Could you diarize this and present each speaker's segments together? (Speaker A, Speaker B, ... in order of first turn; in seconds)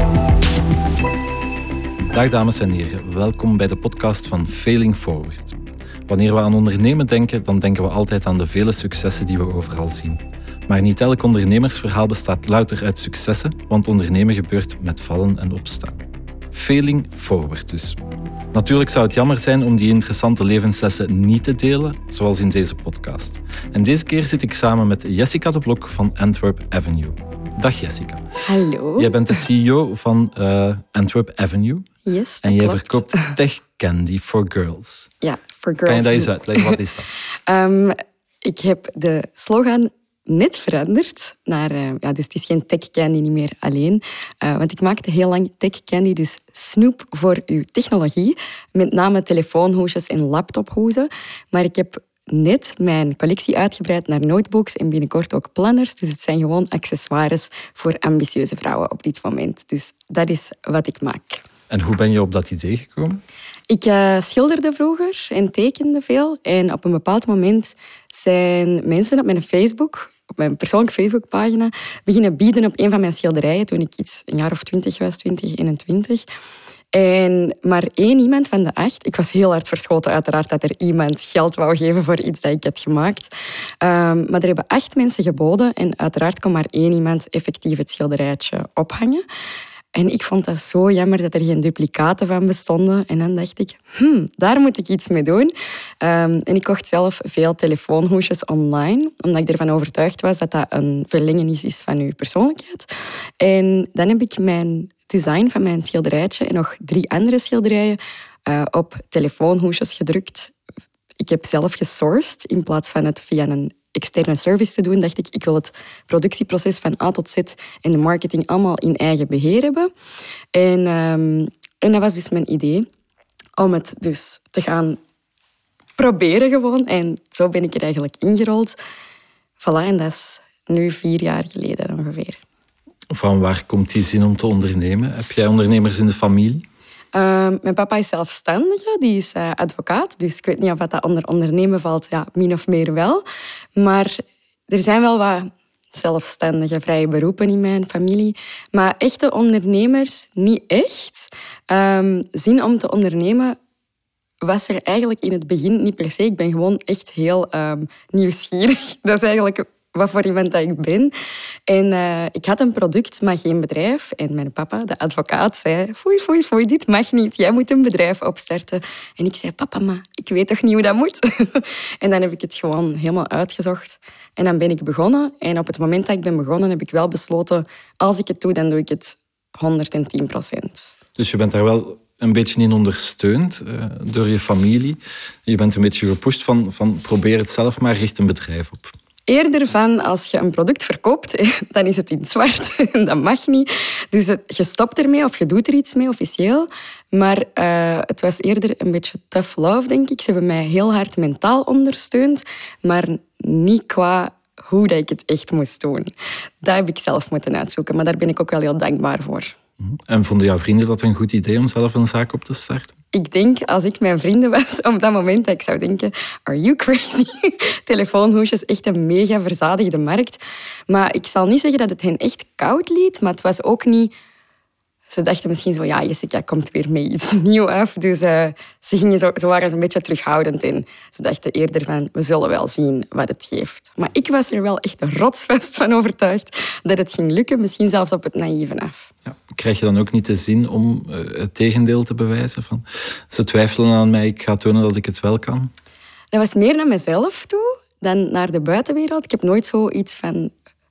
Speaker A: 2.1-5.5, 6.1-18.0, 18.5-28.4, 28.9-31.9, 32.4-35.1, 35.9-37.1, 61.7-63.2, 133.1-136.6, 181.2-188.9, 209.8-212.9, 239.2-245.7
Speaker B: 28.4-29.1, 32.0-33.3, 35.2-36.8, 37.5-61.4, 63.7-76.2, 76.9-83.3, 83.8-89.2, 89.9-102.9, 103.4-110.5, 111.2-119.9, 120.5-122.9, 123.6-125.0, 126.0-128.8, 129.6-132.4, 137.1-143.2, 143.8-144.2, 144.7-153.6, 154.4-161.1, 161.7-180.9, 189.3-206.1, 206.6-209.5, 213.1-224.1, 225.1-239.1, 246.3-250.5